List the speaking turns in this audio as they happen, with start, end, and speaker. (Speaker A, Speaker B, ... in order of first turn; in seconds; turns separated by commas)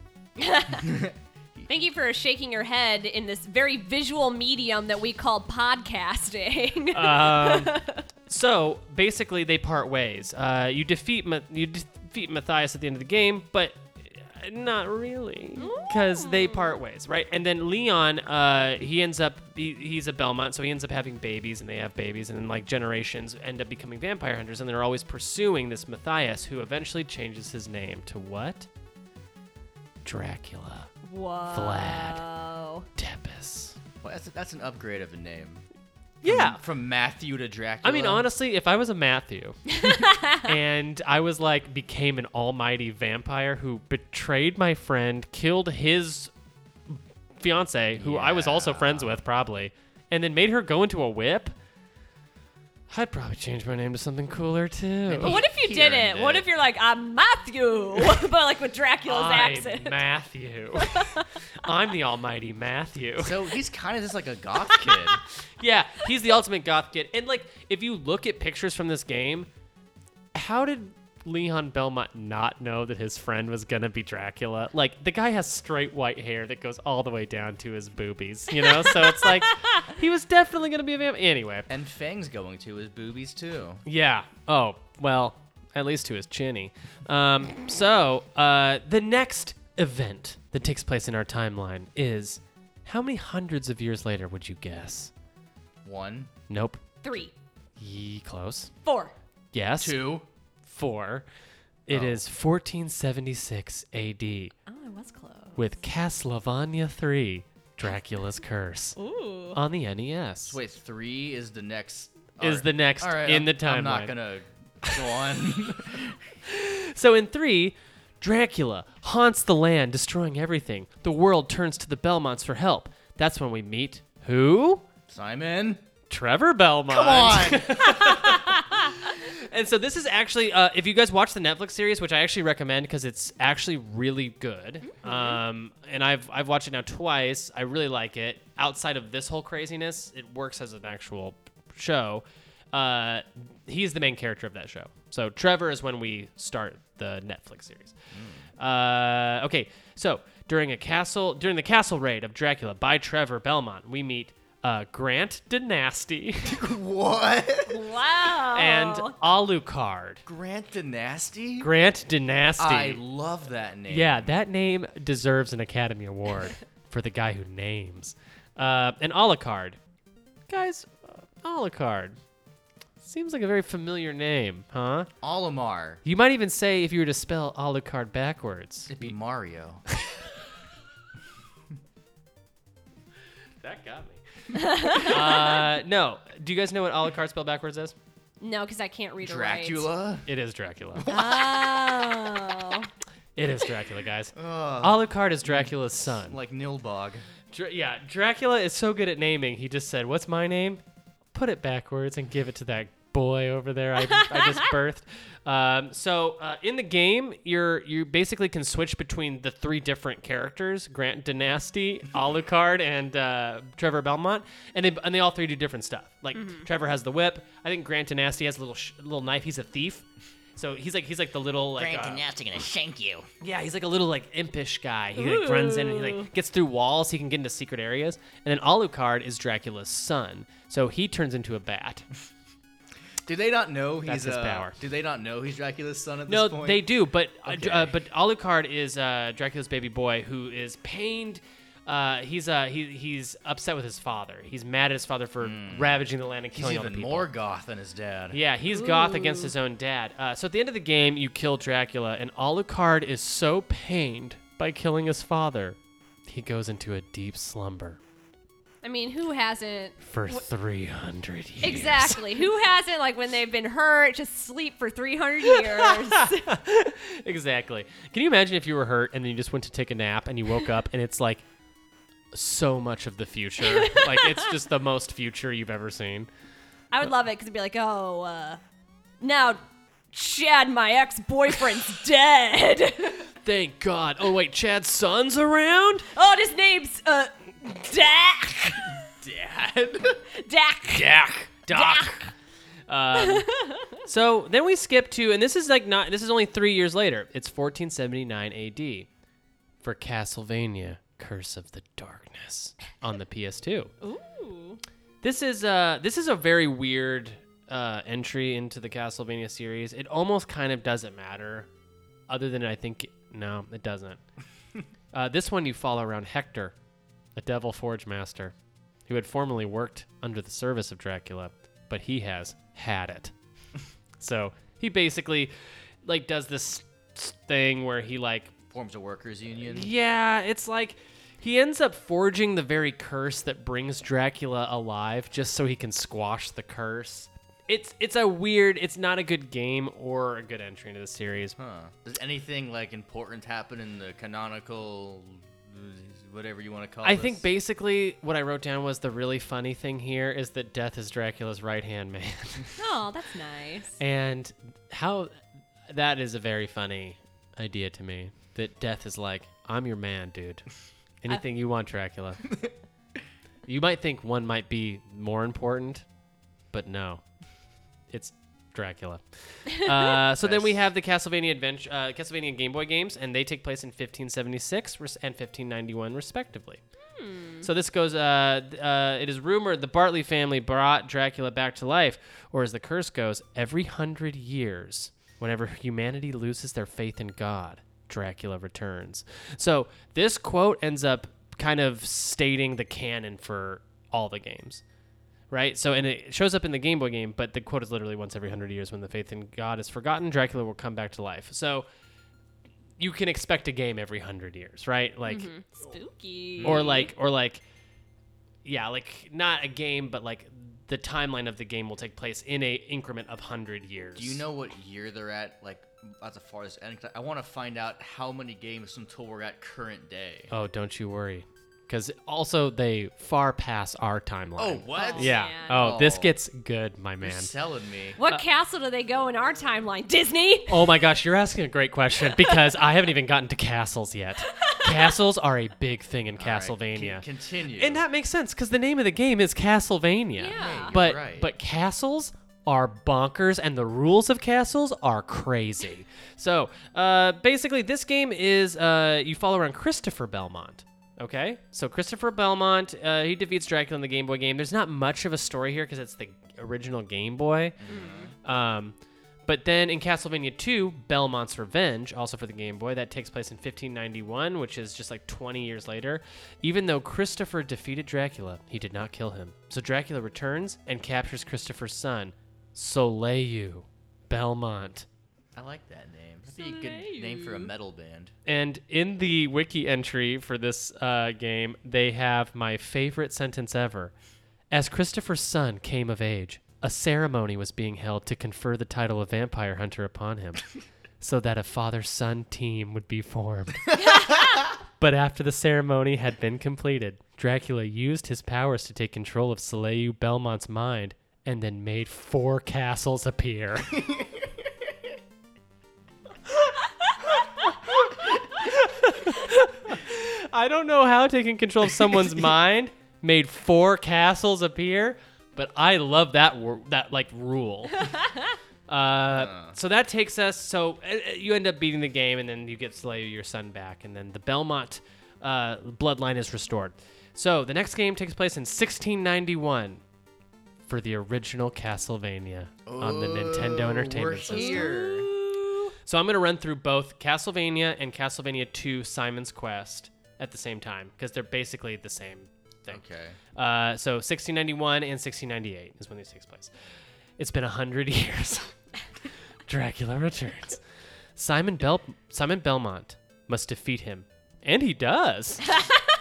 Speaker A: 0.4-1.1, Speaker B: 0.8-1.7, Speaker A: 1.7-8.0, Speaker C: 6.9-28.7, Speaker A: 15.6-16.8, Speaker C: 30.0-30.9, Speaker A: 31.0-32.9, Speaker C: 31.5-32.2, Speaker C: 33.0-33.8, Speaker B: 34.0-35.6, Speaker C: 36.2-36.6, Speaker B: 36.2-38.2, Speaker C: 37.8-46.3, Speaker A: 39.7-40.4, Speaker C: 46.9-51.5, Speaker B: 48.0-49.2, Speaker C: 52.9-55.4, Speaker B: 55.1-56.5, Speaker A: 55.2-60.0, Speaker C: 59.0-63.4, Speaker A: 60.8-61.3, Speaker B: 63.2-65.2, Speaker C: 65.6-69.5, Speaker C: 70.3-81.7, Speaker A: 79.1-79.3, Speaker B: 81.7-83.8, Speaker C: 83.8-95.1, Speaker B: 95.8-96.3, Speaker C: 96.5-96.8, Speaker A: 97.0-97.3, Speaker C: 97.8-98.7, Speaker A: 98.8-99.1, Speaker C: 99.5-100.0, Speaker B: 99.8-100.3, Speaker C: 100.7-101.2, Speaker C: 101.8-104.5, Speaker B: 101.9-102.2, Speaker A: 104.7-105.7, Speaker C: 105.5-109.0, Speaker A: 109.0-109.6, Speaker C: 109.5-110.6, Speaker B: 110.5-116.2, Speaker C: 112.4-114.1, Speaker C: 114.8-115.2, Speaker C: 116.5-124.8, Speaker B: 125.1-125.8, Speaker C: 126.1-147.9, Speaker B: 126.9-128.2, Speaker A: 134.9-135.4, Speaker B: 148.1-148.4, Speaker C: 148.6-156.6, Speaker B: 156.4-157.8, Speaker A: 157.7-159.1, Speaker C: 158.5-160.2, Speaker B: 160.2-161.7, Speaker C: 161.6-163.0, Speaker B: 162.6-164.3, Speaker C: 163.9-169.8, Speaker C: 170.5-172.2, Speaker C: 173.0-175.1, Speaker B: 175.2-176.0, Speaker C: 176.0-179.1, Speaker B: 178.9-179.8, Speaker C: 183.6-184.2, Speaker A: 184.6-185.1, Speaker C: 184.9-187.9, Speaker A: 188.4-189.9, Speaker B: 189.2-190.3, Speaker C: 190.2-191.1, Speaker B: 190.9-191.8, Speaker A: 191.1-192.9, Speaker C: 193.3-196.4, Speaker B: 194.3-197.2, Speaker C: 197.5-200.8, Speaker C: 201.3-220.0, Speaker A: 204.2-204.6, Speaker A: 216.3-216.6, Speaker C: 220.6-222.2, Speaker B: 221.8-223.3, Speaker C: 223.4-232.0, Speaker A: 225.2-226.3, Speaker B: 233.2-236.9, Speaker C: 234.1-234.8, Speaker C: 236.3-247.3, Speaker B: 237.4-237.9, Speaker B: 245.4-246.0, Speaker B: 246.5-248.4, Speaker C: 248.3-258.0, Speaker A: 248.7-249.5, Speaker A: 258.8-260.4, Speaker C: 260.0-262.4, Speaker A: 261.6-266.5, Speaker C: 265.5-271.4, Speaker C: 272.3-276.3, Speaker A: 273.6-274.5, Speaker A: 276.9-278.6, Speaker A: 279.2-279.6, Speaker A: 280.1-283.2, Speaker C: 283.4-286.1, Speaker A: 286.1-289.0, Speaker B: 289.2-290.2, Speaker A: 290.3-291.1, Speaker C: 290.9-292.3, Speaker A: 291.7-292.3, Speaker C: 292.9-293.5, Speaker A: 293.1-294.0, Speaker C: 294.0-299.1, Speaker C: 299.8-303.9, Speaker A: 304.0-304.8, Speaker C: 305.2-311.7, Speaker C: 312.3-314.2, Speaker C: 315.1-316.7, Speaker C: 317.4-318.5, Speaker C: 319.1-323.3, Speaker C: 324.2-325.5, Speaker C: 326.0-328.5, Speaker B: 328.7-329.9, Speaker C: 329.6-341.6, Speaker B: 341.6-347.4, Speaker C: 347.0-352.8, Speaker A: 352.8-354.0, Speaker C: 354.0-355.3, Speaker C: 355.9-360.7, Speaker C: 361.2-362.5, Speaker C: 363.6-366.0, Speaker C: 366.7-367.2, Speaker C: 368.1-376.8, Speaker B: 370.4-370.8, Speaker A: 377.1-377.7, Speaker C: 377.6-394.8, Speaker C: 395.5-401.9, Speaker C: 403.0-405.5, Speaker A: 405.2-407.0, Speaker B: 406.6-407.1, Speaker C: 406.6-407.6, Speaker C: 408.6-414.4, Speaker B: 414.1-420.5, Speaker C: 420.5-427.5, Speaker B: 424.6-426.3, Speaker A: 424.9-425.8, Speaker B: 427.2-428.2, Speaker A: 428.2-430.9, Speaker C: 430.7-457.8, Speaker A: 434.5-435.1, Speaker B: 436.4-438.0, Speaker A: 440.4-441.0, Speaker B: 440.5-441.5, Speaker B: 457.8-458.3, Speaker A: 457.9-458.3, Speaker C: 458.4-475.1, Speaker B: 475.5-478.3, Speaker A: 476.6-477.7, Speaker C: 478.4-484.1, Speaker C: 484.7-490.6, Speaker C: 491.2-493.9, Speaker A: 493.9-494.6, Speaker C: 495.0-504.1, Speaker C: 506.7-518.1, Speaker C: 518.9-530.0, Speaker B: 519.3-519.8, Speaker C: 530.9-534.9, Speaker B: 532.9-535.3, Speaker A: 534.5-535.9, Speaker C: 536.0-543.0, Speaker B: 542.9-543.4, Speaker C: 543.5-546.7, Speaker C: 547.4-548.8, Speaker C: 549.6-550.8, Speaker C: 551.4-555.8